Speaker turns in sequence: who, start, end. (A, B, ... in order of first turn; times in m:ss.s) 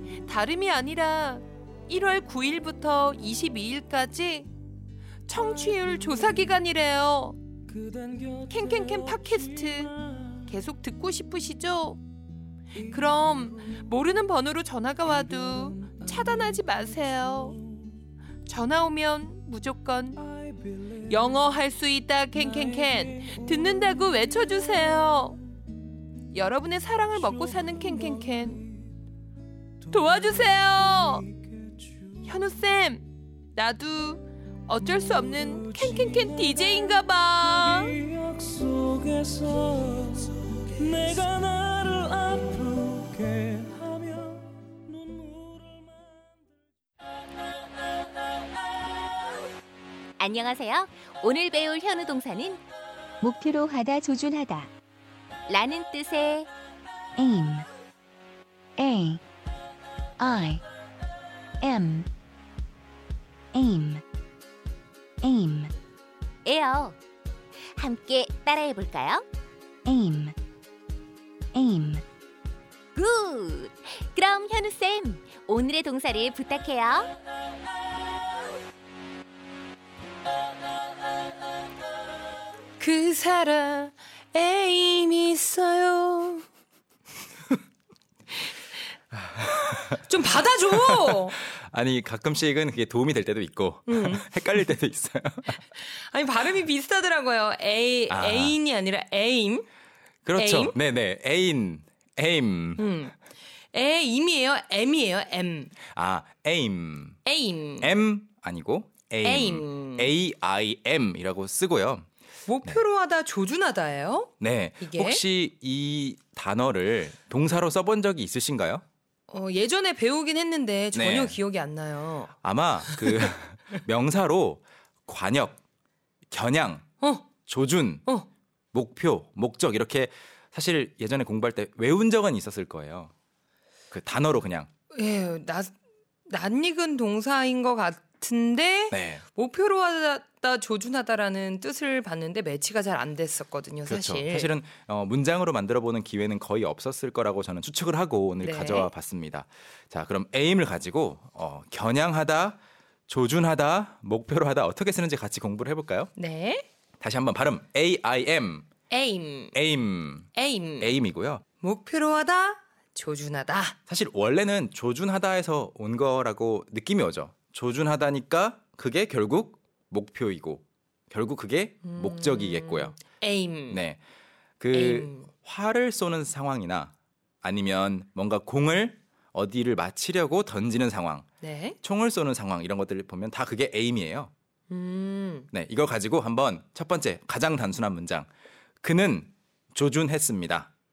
0:00.2-0:04.5 A
0:05.2-0:07.4 A
0:08.2-0:12.0 A
0:12.8-0:17.6 A
0:18.4-0:20.2 A
0:20.9-0:25.4 A
0:26.3-0:28.7 A
0:29.9-0:31.3 A
0:32.1-0:38.0 A
0:38.5-0:40.1 B
0:41.3-0:44.4 B
0:50.2-0:52.6 C
0:53.2-0:54.7 D
0:55.5-0:56.5 C
0:57.2-0:57.6 D
0:58.8-0:59.2 D
1:00.2-1:00.6 D
1:01.6-1:02.1 D
1:03.5-1:04.0 D
1:05.2-1:05.7 D
1:06.4-1:07.0 C
1:07.7-1:09.2 C
1:09.8-1:10.3 D
1:11.5-1:12.0 D
1:12.9-1:17.1 C
1:22.8-1:26.4 A
1:29.2-1:30.0 E
1:29.9-1:31.4 A
1:30.7-1:35.6 E
1:33.9-1:34.4 A
1:35.8-1:39.6 A
1:38.1-1:38.6 E
1:40.2-1:42.8 E
1:40.4-1:40.7 A
1:42.8-1:43.1 A
1:43.7-1:45.7 A
1:45.9-1:47.2 E
1:47.2-1:47.9 A
1:47.8-1:52.1 E
1:49.2-1:50.1 A
1:52.5-1:55.2 A
1:54.4-1:58.8 E
1:59.3-2:02.3 A
2:00.9-2:01.4 E
2:02.4-2:05.6 E
2:02.9-2:03.3 A
2:06.3-2:06.9 E
2:07.0-2:07.3 A
2:07.4-2:08.0 E
2:08.7-2:13.1 E
2:13.9-2:14.7 E
2:14.9-2:15.7 A
2:16.3-2:24.5 A
2:18.9-2:19.2 E
2:23.9-2:36.1 E
2:28.4-2:28.9 A
2:36.2-2:36.6 A
2:37.0-2:38.6 E
2:38.9-2:39.6 A
2:39.5-2:41.4 E
2:40.3-2:40.9 A
2:41.6-2:43.8 A
2:43.9-2:53.0 E
2:51.8-2:53.8 A
2:53.7-2:54.0 E
2:54.6-3:01.3 E
2:54.7-2:55.3 A
3:01.4-3:01.8 A
3:01.8-3:04.3 E
3:04.7-3:05.5 A
3:05.5-3:08.3 E
3:08.8-3:10.7 E